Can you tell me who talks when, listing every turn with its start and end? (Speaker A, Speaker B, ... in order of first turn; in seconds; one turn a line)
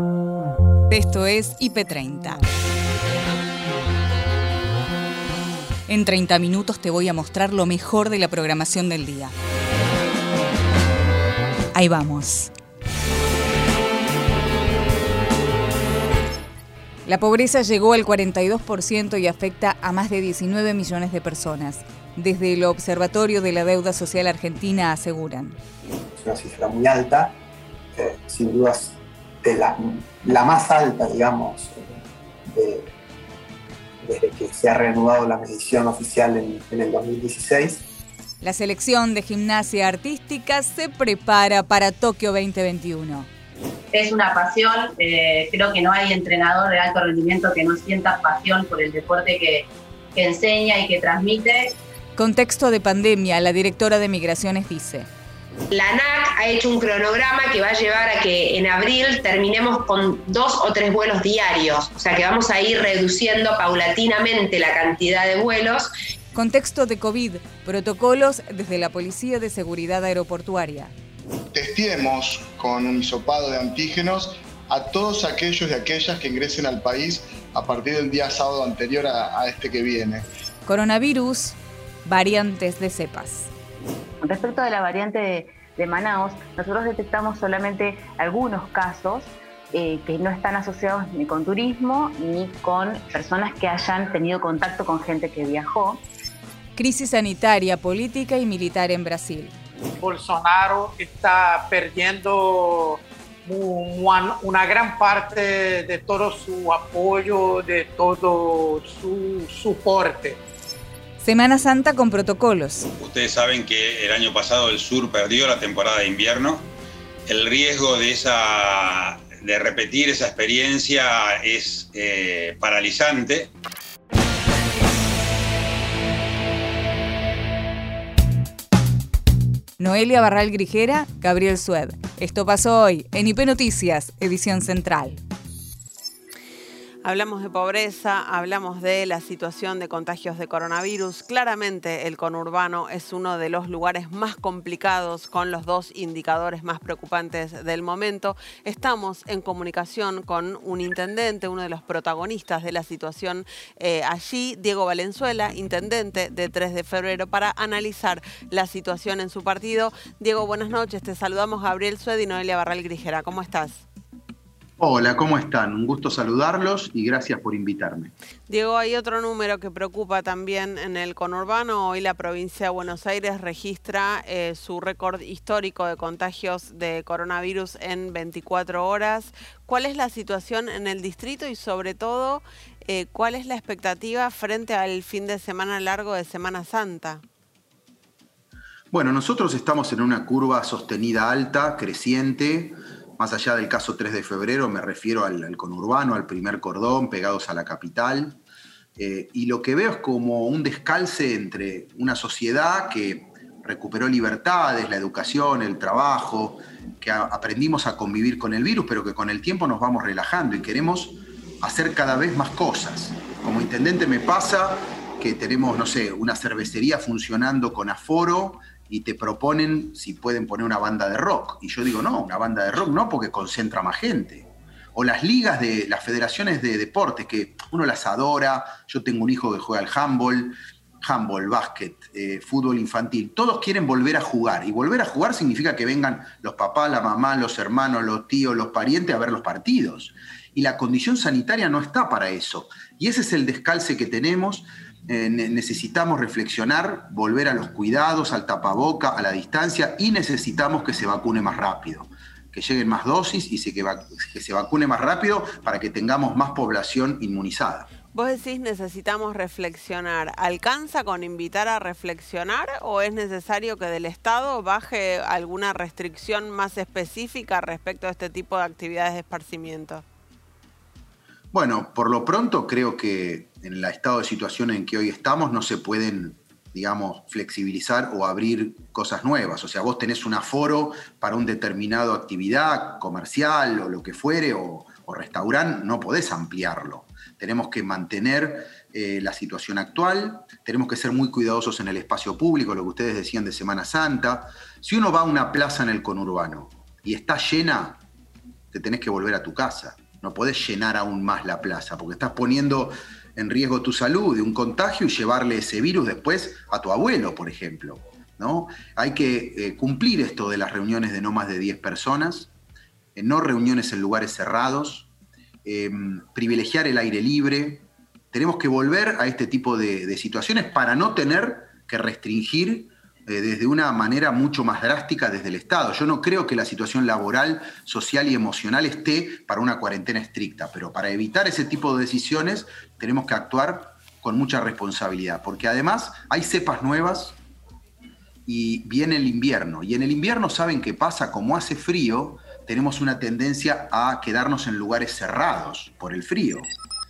Speaker A: 0.9-2.4
Speaker A: 5.9-9.3
Speaker A: 11.7-12.5
Speaker A: 17.1-25.6
Speaker B: 26.1-27.4
Speaker B: 27.9-32.9
Speaker B: 34.0-37.9
Speaker A: 38.4-43.3
Speaker C: 43.9-51.8
Speaker A: 52.2-55.1
Speaker D: 55.7-65.9
Speaker A: 66.3-70.9
Speaker E: 71.5-80.3
Speaker A: 80.7-83.5
Speaker F: 84.2-96.0
Speaker A: 96.8-99.5
Speaker G: 100.0-110.4
Speaker A: 111.2-112.9
Speaker H: 113.0-116.7
Speaker H: 117.3-123.5
Speaker A: 129.8-135.2
Speaker I: 137.0-163.9
Speaker J: 164.8-168.1
Speaker I: 168.5-187.2
Speaker J: 188.9-198.4
Speaker J: 199.0-257.9
Speaker I: 258.1-270.0
Speaker J: 271.5-298.0
Speaker J: 298.7-312.5
Speaker J: 313.2-315.1
Speaker J: 315.6-337.4
Speaker J: 338.5-346.7